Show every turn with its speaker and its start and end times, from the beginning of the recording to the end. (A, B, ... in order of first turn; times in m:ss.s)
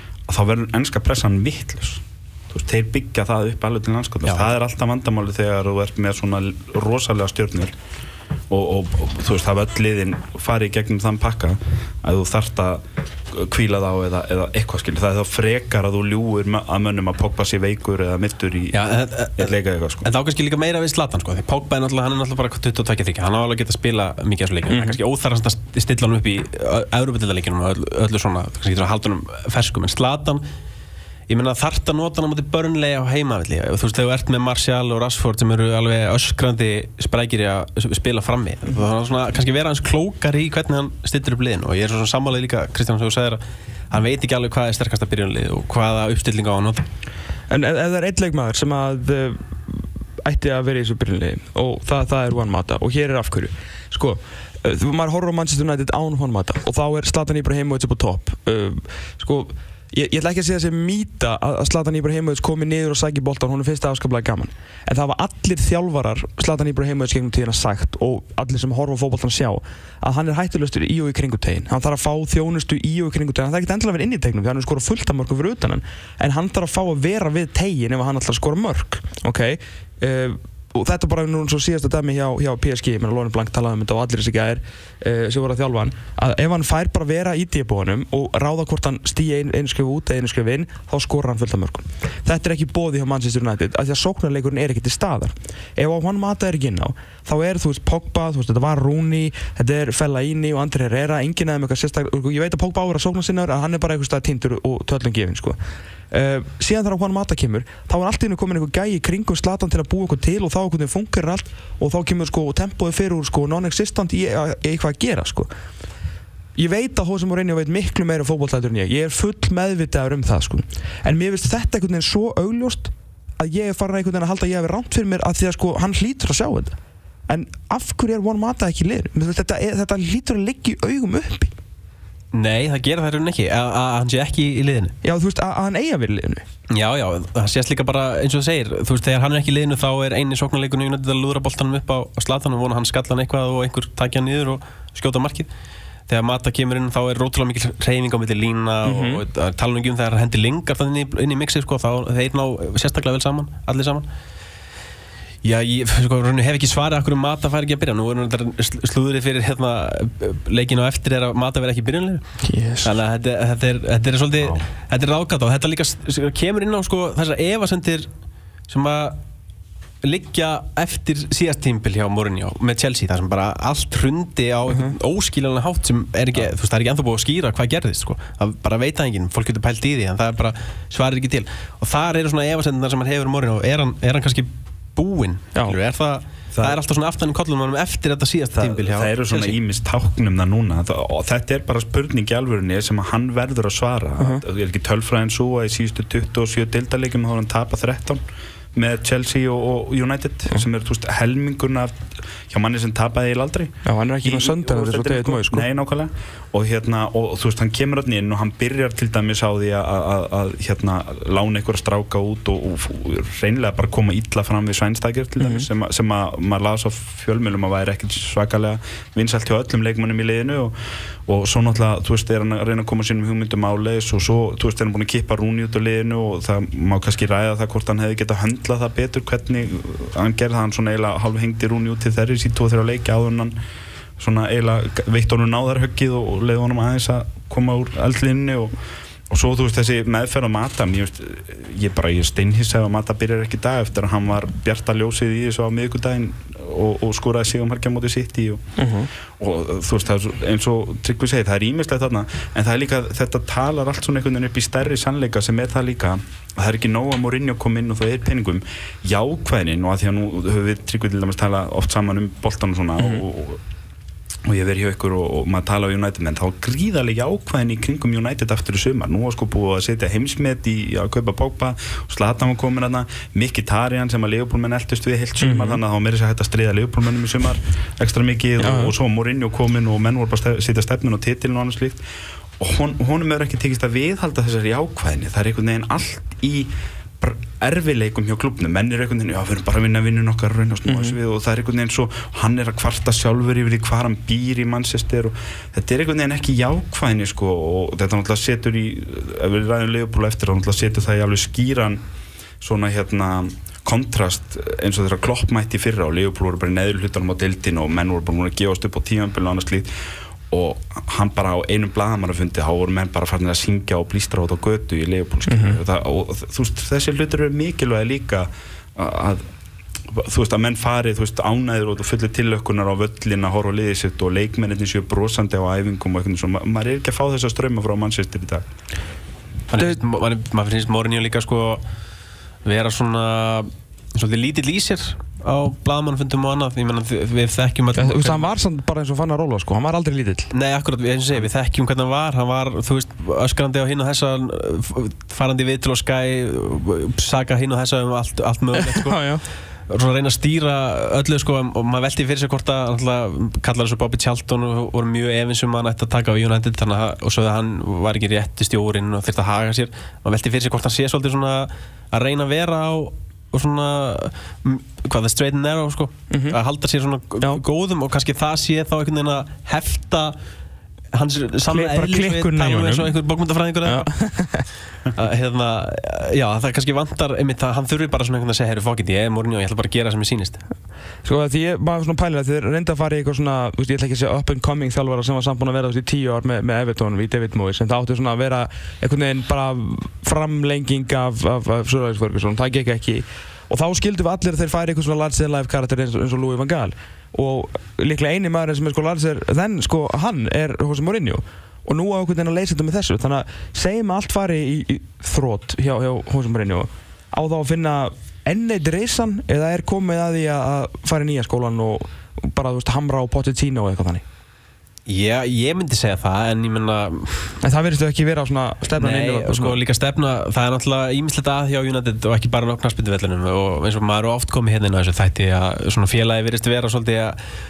0:00.3-0:07.8 A
0:04.2-0:04.5 B
0:08.5-0:18.8 A
0:18.7-0:19.5 B
0:19.4-0:20.1 A
0:20.0-0:30.4 B
0:24.7-0:25.0 C
0:31.3-0:46.8 B
0:47.5-1:45.6 C
1:46.1-1:55.5 C
1:56.6-2:06.8 C
2:07.3-2:11.5 C
2:12.3-2:14.9 B
2:15.0-2:16.4 C
2:16.7-2:25.5 B
2:26.1-2:34.1 B
2:28.8-2:29.2 C
2:35.4-2:42.2 B
2:42.4-2:42.9 C
2:42.8-2:48.1 B
2:48.7-2:49.2 B
2:50.0-3:09.6 B
3:08.6-3:18.2 A
3:18.7-3:53.6 A
3:23.8-3:25.7 C
3:35.4-3:35.7 C
3:54.2-3:58.8 A
3:59.3-4:08.7 A
4:08.8-4:09.1 C
4:09.4-4:23.6 A
4:24.5-4:42.0 A
4:35.4-4:35.8 C
4:38.6-4:38.9 C
4:42.6-5:02.0 A
4:50.9-4:51.2 C
5:02.6-5:19.5 A
5:15.5-5:15.8 C
5:20.1-5:28.7 A
5:29.7-5:31.8 B
5:32.6-5:38.4 B
5:38.0-5:40.5 C
5:40.5-5:49.3 B
5:49.0-5:49.4 C
5:49.9-6:10.4 B
6:06.3-6:06.6 C
6:11.1-6:14.1 B
6:11.7-6:13.1 C
6:13.8-6:14.7 C
6:15.1-6:20.6 B
6:21.2-6:54.2 C
6:55.1-6:57.6 B
6:57.6-6:59.8 C
6:59.0-7:07.4 B